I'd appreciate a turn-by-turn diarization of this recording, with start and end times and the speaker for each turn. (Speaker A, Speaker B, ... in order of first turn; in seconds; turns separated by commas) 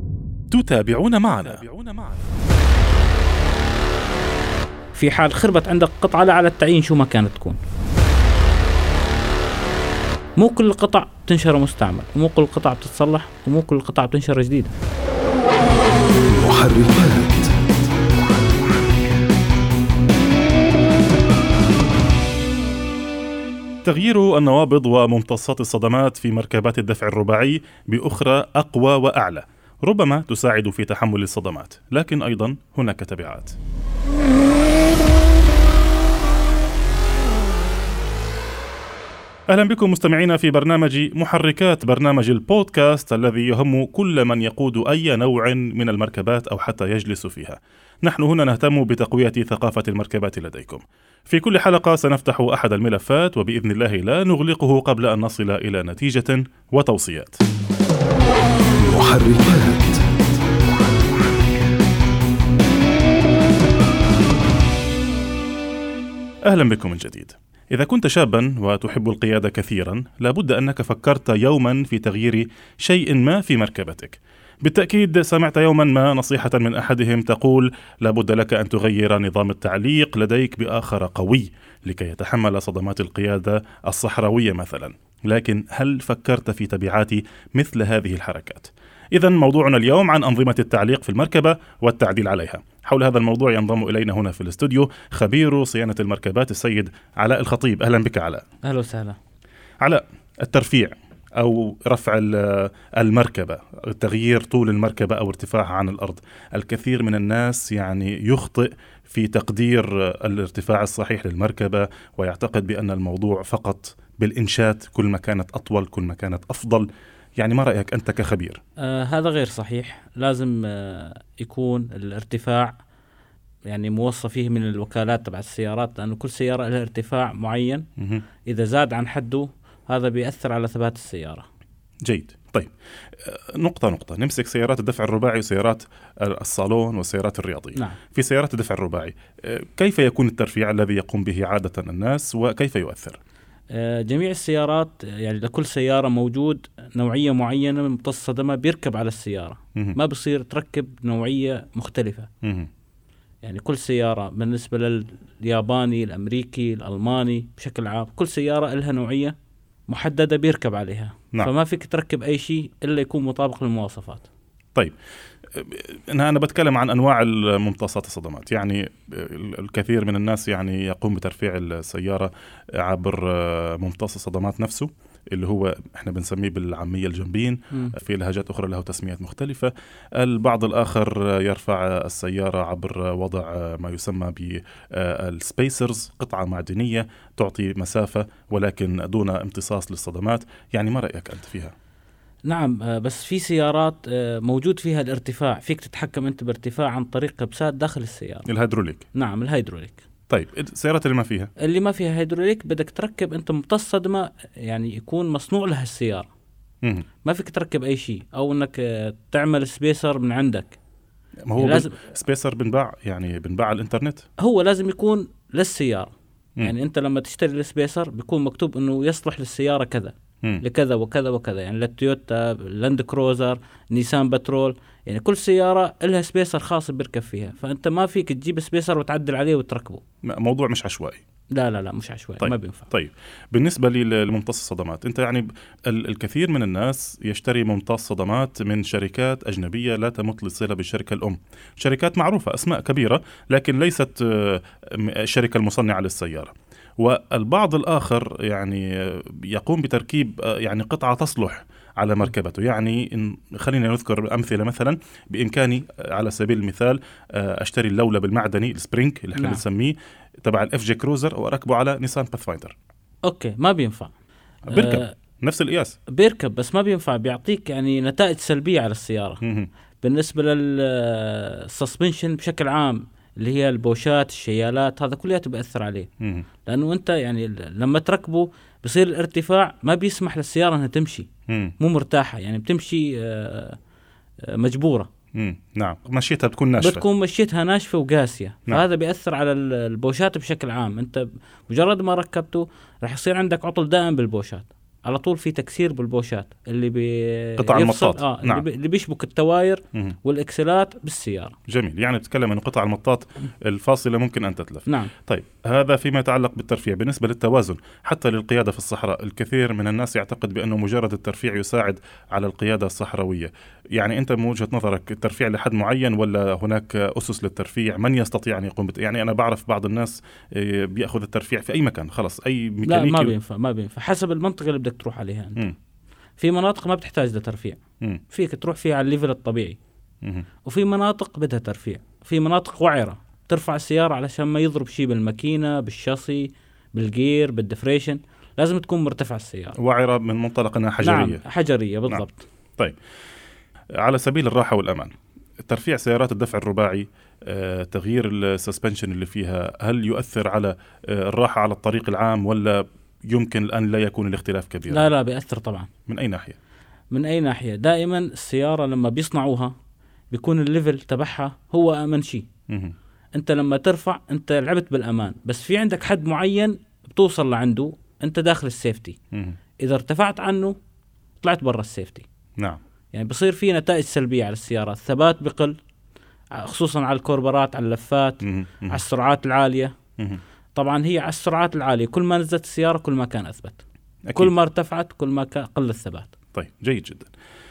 Speaker A: 0.5-2.3, Speaker B: 4.9-7.6, Speaker B: 10.4-14.7, Speaker C: 16.3-17.5, Speaker A: 23.8-33.5, Speaker A: 39.5-57.4, Speaker C: 58.8-60.0, Speaker A: 66.5-98.4, Speaker B: 98.6-99.2, Speaker A: 99.8-118.6, Speaker B: 118.8-122.8, Speaker B: 123.7-127.8, Speaker A: 128.0-128.2, Speaker B: 128.4-131.4, Speaker A: 132.0-132.7, Speaker A: 133.2-143.2, Speaker B: 143.7-152.3, Speaker A: 152.4-152.7, Speaker B: 153.4-159.3, Speaker B: 159.9-164.3, Speaker A: 165.5-191.7, Speaker B: 192.4-198.5, Speaker A: 198.5-199.0, Speaker B: 199.1-200.0, Speaker A: 200.3-201.5, Speaker B: 201.6-206.3, Speaker B: 207.2-210.8, Speaker A: 211.4-214.2, Speaker B: 211.6-211.9, Speaker B: 214.4-230.0, Speaker A: 230.2-231.2, Speaker B: 231.5-232.9, Speaker A: 232.4-262.7, Speaker B: 259.3-259.6, Speaker B: 263.2-264.1, Speaker A: 264.7-266.0, Speaker B: 264.7-265.1, Speaker B: 266.1-269.4, Speaker A: 269.4-269.7, Speaker B: 270.0-276.1, Speaker A: 276.2-276.4, Speaker B: 276.6-281.3, Speaker A: 281.5-281.7, Speaker B: 281.8-283.8, Speaker B: 284.4-285.1, Speaker A: 285.3-287.0, Speaker B: 286.8-301.6, Speaker A: 297.6-298.6, Speaker A: 301.7-323.3, Speaker B: 304.9-305.1, Speaker B: 322.8-325.7, Speaker B: 326.4-327.8, Speaker B: 328.3-329.8, Speaker B: 330.6-339.8, Speaker A: 339.8-341.4, Speaker B: 341.0-342.4, Speaker A: 344.0-345.1, Speaker A: 345.6-355.1, Speaker B: 354.9-355.9, Speaker A: 356.1-356.6, Speaker B: 357.1-359.7, Speaker B: 360.3-362.4, Speaker A: 362.7-362.9, Speaker B: 363.3-369.2, Speaker A: 369.3-369.6, Speaker B: 369.8-370.7, Speaker B: 371.4-372.2, Speaker B: 373.1-375.7, Speaker B: 376.5-379.9, Speaker A: 378.4-379.0, Speaker B: 380.7-383.8, Speaker A: 384.3-384.5, Speaker B: 384.3-386.3, Speaker A: 386.5-387.3